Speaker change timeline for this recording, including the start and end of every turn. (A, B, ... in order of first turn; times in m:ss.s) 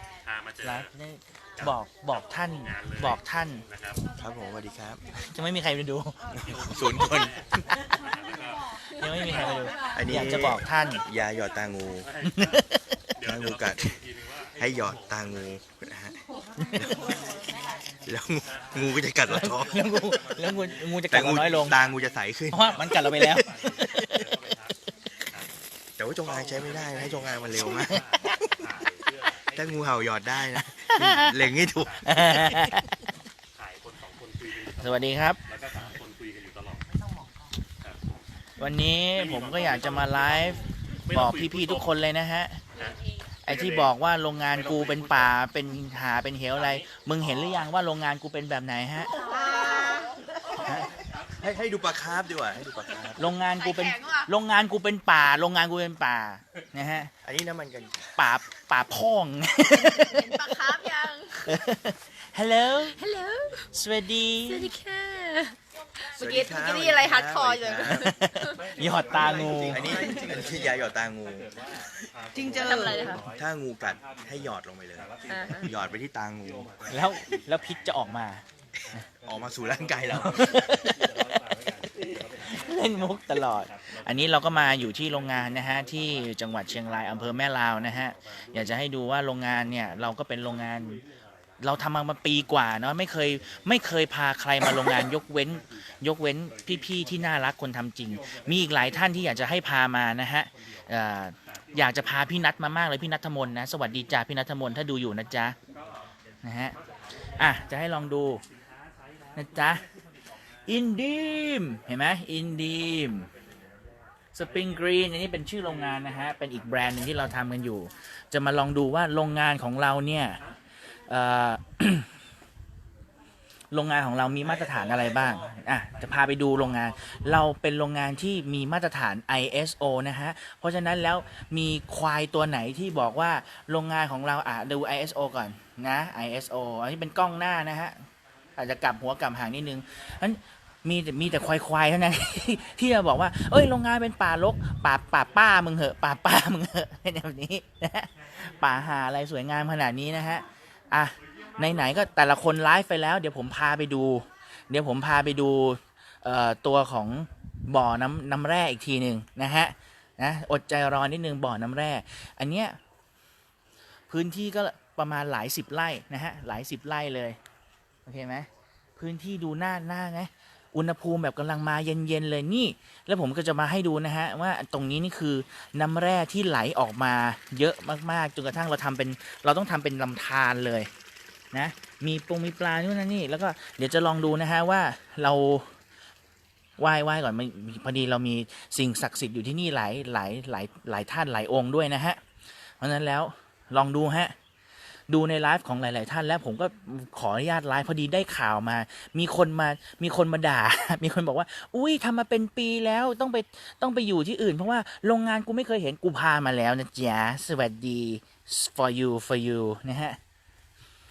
0:00.6-0:03.6 A
0:04.2-0:05.0 B
0:05.1-0:06.2 A
0:06.4-0:07.6 B
0:06.4-0:07.4 C
0:08.0-0:08.6 C
0:08.7-0:11.0 A
0:09.9-0:12.1 B
0:12.2-0:13.0 A
0:13.2-0:15.3 C
0:13.2-0:14.0 B
0:14.5-0:16.2 B
0:16.8-0:17.2 B
0:18.0-0:19.7 B
0:18.4-0:18.8 C
0:19.3-0:21.8 A
0:19.4-0:20.5 C
0:21.1-0:22.6 B
0:21.1-0:22.0 C
0:22.5-0:24.3 A
0:22.9-0:24.6 C
0:26.0-0:28.0 B
0:26.3-0:28.0 C
0:27.9-0:28.5 A
0:28.6-0:29.1 C
0:29.5-0:32.6 B
0:30.9-0:31.3 A
0:32.0-0:33.0 A
0:32.1-0:32.5 C
0:34.8-0:35.4 A
0:35.5-0:36.6 C
0:38.6-0:42.6 A
0:41.2-0:41.5 C
0:43.4-0:49.2 A
0:49.2-0:50.2 D
0:50.6-0:50.9 A
0:51.4-0:53.2 B
0:53.2-0:57.1 A
0:53.6-0:54.3 D
0:57.2-0:58.2 B
0:58.2-1:00.9 A
0:59.8-1:01.5 D
1:01.4-1:03.0 A
1:02.9-1:03.6 D
1:03.6-1:04.7 A
1:04.5-1:08.7 D
1:06.1-1:08.1 B
1:07.9-1:10.1 A
1:08.8-1:10.8 C
1:09.1-1:11.7 B
1:10.0-1:10.2 D
1:11.4-1:13.4 C
1:12.4-1:13.2 D
1:12.4-1:16.7 B
1:13.9-1:14.2 C
1:15.0-1:15.8 C
1:15.3-1:15.7 D
1:16.5-1:17.1 C
1:16.9-1:18.4 A
1:19.2-1:20.4 B
1:19.2-1:23.0 C
1:20.1-1:31.0 A
1:31.6-1:45.6 A
1:46.4-1:46.8 A
1:47.4-1:48.4 A
1:49.4-1:49.8 A
1:50.6-1:53.3 A
1:54.3-2:00.4 A
2:01.1-2:02.1 A
2:03.7-2:18.0 A
2:18.6-2:42.8 A
2:44.1-2:47.4 A
2:48.0-3:00.9 A
3:01.5-3:05.7 A
3:06.8-3:12.2 A
3:12.8-3:14.3 A
3:15.1-3:30.2 A